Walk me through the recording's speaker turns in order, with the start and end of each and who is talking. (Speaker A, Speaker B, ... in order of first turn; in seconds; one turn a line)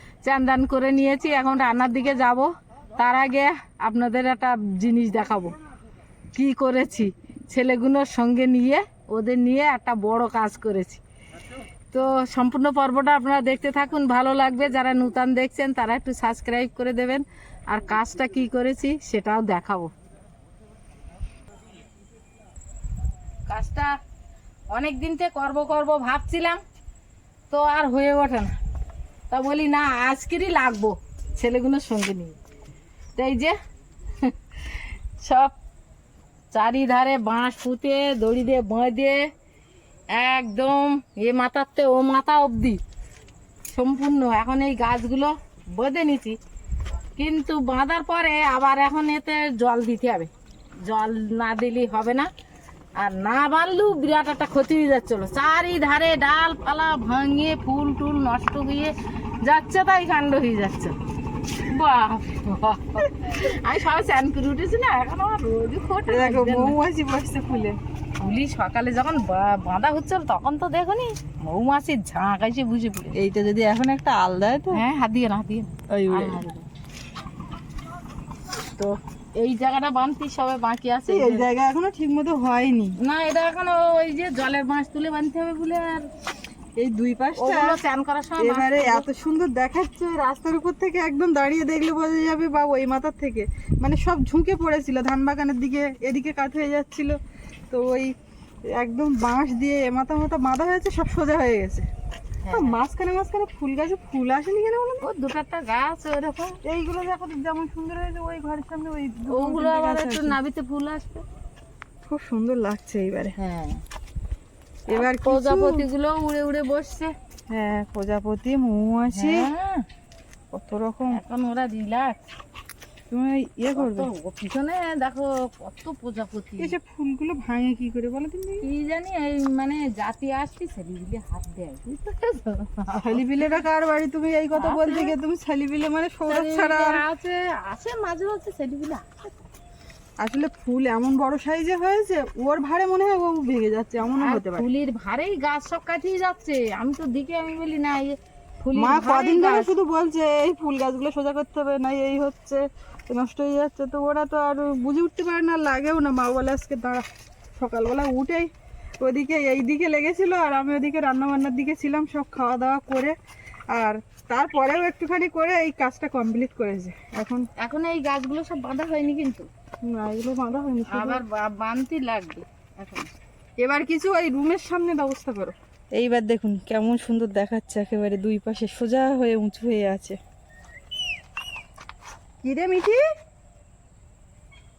Speaker A: 0.2-5.5
Speaker A: 6.3-11.0
Speaker A: 11.9-19.9
Speaker A: 23.5-23.9
Speaker A: 24.7-26.6
Speaker A: 27.5-28.5
Speaker A: 29.3-32.4
Speaker A: 33.2-33.6
Speaker A: 34.2-35.5
Speaker A: 36.5-39.3
Speaker A: 40.1-42.8
Speaker A: 43.7-46.4
Speaker A: 47.2-50.3
Speaker A: 50.8-52.3
Speaker A: 53.0-61.0
Speaker A: 61.6-66.8
Speaker B: 66.1-67.8
Speaker A: 68.2-73.1
Speaker B: 73.1-74.8
Speaker A: 74.7-76.7
Speaker B: 75.9-76.5
Speaker A: 78.8-81.5
Speaker B: 81.1-83.0
Speaker A: 83.0-86.1
Speaker B: 86.8-87.8
Speaker A: 87.4-89.1
Speaker B: 88.4-97.2
Speaker B: 97.7-98.1
Speaker B: 98.7-101.9
Speaker A: 102.4-102.8
Speaker B: 102.5-105.0
Speaker A: 105.0-106.6
Speaker B: 106.6-110.4
Speaker A: 109.3-111.2
Speaker B: 112.0-113.3
Speaker A: 113.4-113.8
Speaker B: 114.9-115.8
Speaker A: 114.9-117.1
Speaker B: 117.5-119.5
Speaker A: 119.1-119.8
Speaker B: 120.5-121.2
Speaker A: 121.1-122.3
Speaker B: 123.1-124.1
Speaker A: 123.7-126.8
Speaker B: 126.6-128.7
Speaker A: 128.6-133.2
Speaker B: 132.9-137.0
Speaker A: 134.5-135.1
Speaker A: 136.3-139.1
Speaker B: 140.2-144.7
Speaker A: 144.1-149.7
Speaker B: 148.7-163.2
Speaker B: 163.7-167.5
Speaker A: 167.6-169.5
Speaker B: 169.8-171.2
Speaker A: 170.9-173.1
Speaker B: 173.6-180.2
Speaker B: 182.4-183.0